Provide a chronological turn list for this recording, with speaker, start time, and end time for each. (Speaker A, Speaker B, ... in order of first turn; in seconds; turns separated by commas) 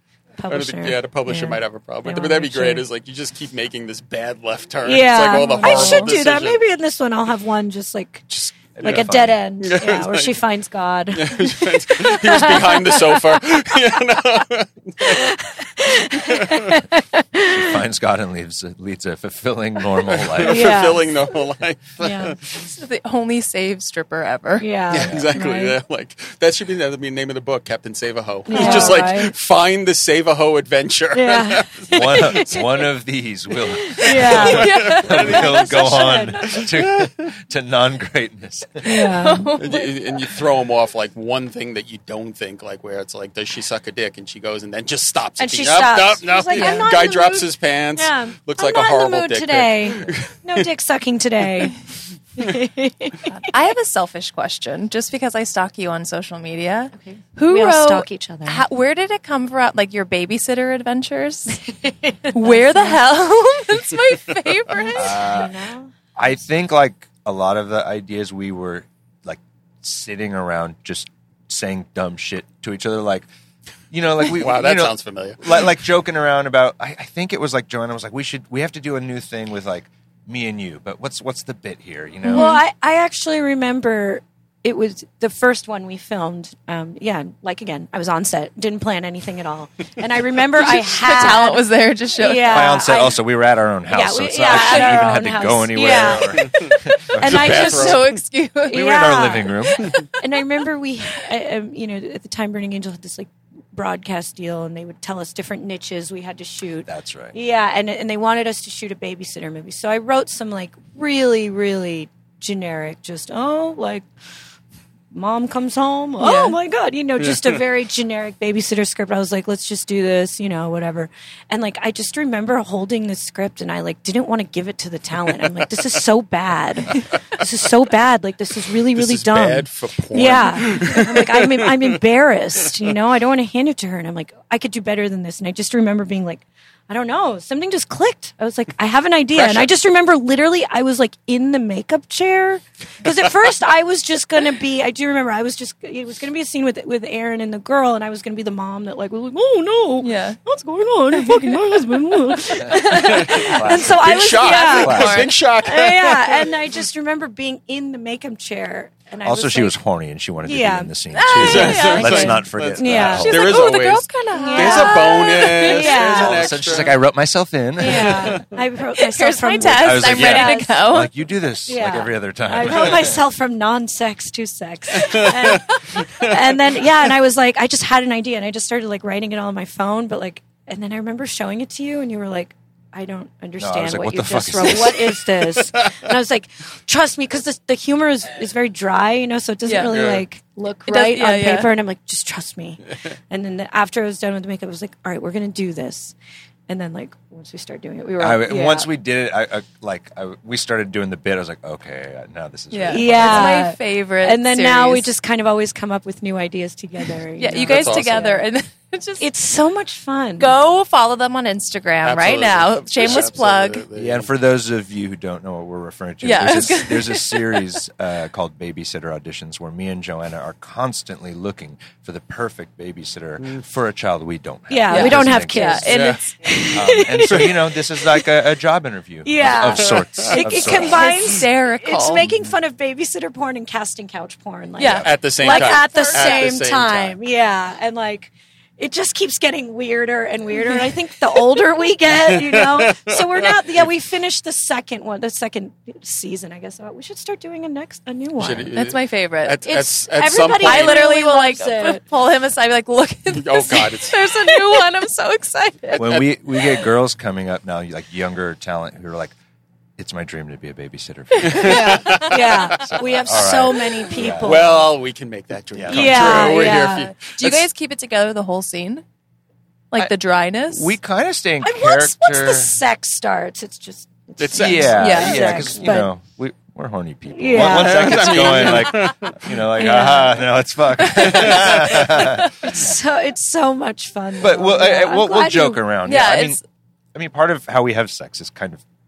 Speaker A: 0.4-2.8, Speaker B: 0.5-6.6, Speaker A: 4.8-13.8, Speaker C: 5.6-6.1, Speaker D: 8.8-9.4, Speaker B: 8.8-9.1, Speaker B: 9.6-10.3, Speaker B: 11.1-15.3, Speaker A: 15.0-17.8, Speaker B: 16.3-16.7, Speaker D: 17.4-20.9, Speaker B: 20.1-22.6, Speaker A: 20.4-21.3, Speaker A: 22.0-22.4, Speaker C: 22.6-24.7, Speaker A: 24.6-25.8, Speaker B: 24.9-32.4, Speaker D: 25.0-25.3, Speaker A: 28.5-29.3, Speaker C: 28.5-29.0, Speaker A: 31.1-32.9, Speaker D: 31.9-39.2, Speaker A: 33.8-36.6, Speaker B: 34.0-35.6, Speaker B: 36.4-37.2, Speaker A: 38.8-39.6, Speaker C: 39.2-39.9, Speaker B: 39.6-50.7, Speaker A: 45.4-51.8, Speaker C: 46.5-46.9, Speaker A: 52.4-53.4, Speaker C: 53.4-61.6, Speaker A: 57.0-58.6, Speaker A: 61.8-63.0, Speaker C: 62.3-65.2, Speaker A: 64.7-65.9, Speaker D: 65.0-65.5, Speaker D: 66.2-73.3, Speaker D: 73.9-82.5, Speaker B: 74.3-75.7, Speaker A: 82.2-91.7, Speaker C: 82.3-82.6, Speaker C: 90.6-92.8, Speaker A: 92.2-93.2, Speaker D: 92.5-97.6, Speaker A: 93.9-98.1, Speaker C: 94.4-95.1, Speaker B: 96.0-96.6, Speaker C: 96.7-98.8, Speaker B: 97.2-98.2, Speaker A: 98.7-114.1, Speaker D: 98.7-99.9, Speaker D: 106.9-107.4, Speaker A: 115.1-159.8, Speaker C: 116.2-116.6, Speaker B: 128.9-132.0, Speaker B: 139.3-139.7, Speaker C: 150.0-150.4, Speaker C: 151.1-153.5, Speaker D: 152.6-154.0, Speaker B: 152.9-156.5, Speaker C: 154.1-155.3, Speaker D: 154.8-155.3, Speaker D: 159.2-163.7, Speaker A: 160.4-160.9, Speaker C: 161.1-162.4, Speaker A: 161.4-163.6, Speaker B: 161.4-167.0, Speaker C: 163.2-165.9, Speaker A: 164.3-166.7, Speaker D: 165.7-168.4, Speaker A: 167.8-170.7, Speaker B: 167.8-168.4, Speaker C: 168.9-171.1, Speaker D: 169.6-173.2, Speaker A: 171.7-196.2, Speaker B: 175.0-176.4, Speaker D: 183.6-185.3, Speaker C: 189.7-189.9, Speaker B: 189.9-190.2, Speaker C: 190.8-191.7, Speaker A: 196.7-198.9, Speaker D: 198.2-203.7, Speaker C: 202.7-205.1, Speaker A: 202.9-208.4, Speaker C: 207.4-209.3, Speaker B: 207.5-208.3, Speaker A: 209.2-210.5, Speaker C: 210.4-213.8, Speaker B: 212.0-214.3, Speaker D: 213.9-226.0, Speaker C: 216.2-217.7, Speaker A: 224.7-228.2, Speaker C: 224.9-226.3, Speaker B: 225.9-226.2, Speaker D: 226.7-231.2, Speaker A: 229.2-248.7, Speaker B: 229.7-230.4, Speaker C: 230.7-232.3, Speaker D: 232.2-232.5, Speaker C: 234.8-236.5, Speaker D: 234.8-235.1, Speaker B: 235.0-237.2, Speaker B: 242.1-243.8, Speaker B: 248.4-251.0, Speaker C: 248.7-249.6, Speaker A: 249.7-252.0, Speaker C: 250.6-256.1, Speaker B: 253.3-254.2, Speaker B: 255.9-256.4, Speaker D: 256.0-259.4, Speaker D: 260.0-262.2, Speaker C: 261.4-262.6, Speaker B: 261.4-263.2, Speaker A: 261.6-265.0, Speaker D: 263.2-264.7, Speaker B: 264.4-267.7, Speaker D: 265.7-266.8, Speaker A: 265.9-267.1, Speaker C: 267.2-269.0, Speaker C: 269.9-270.9, Speaker D: 270.7-272.8, Speaker A: 271.6-276.1, Speaker B: 274.4-275.4, Speaker D: 274.6-282.9, Speaker C: 274.9-275.6, Speaker A: 277.3-279.0, Speaker B: 277.5-279.6, Speaker A: 279.8-280.5, Speaker B: 281.2-282.0, Speaker A: 281.2-285.8, Speaker D: 284.4-286.6, Speaker C: 286.1-286.6, Speaker D: 287.1-288.8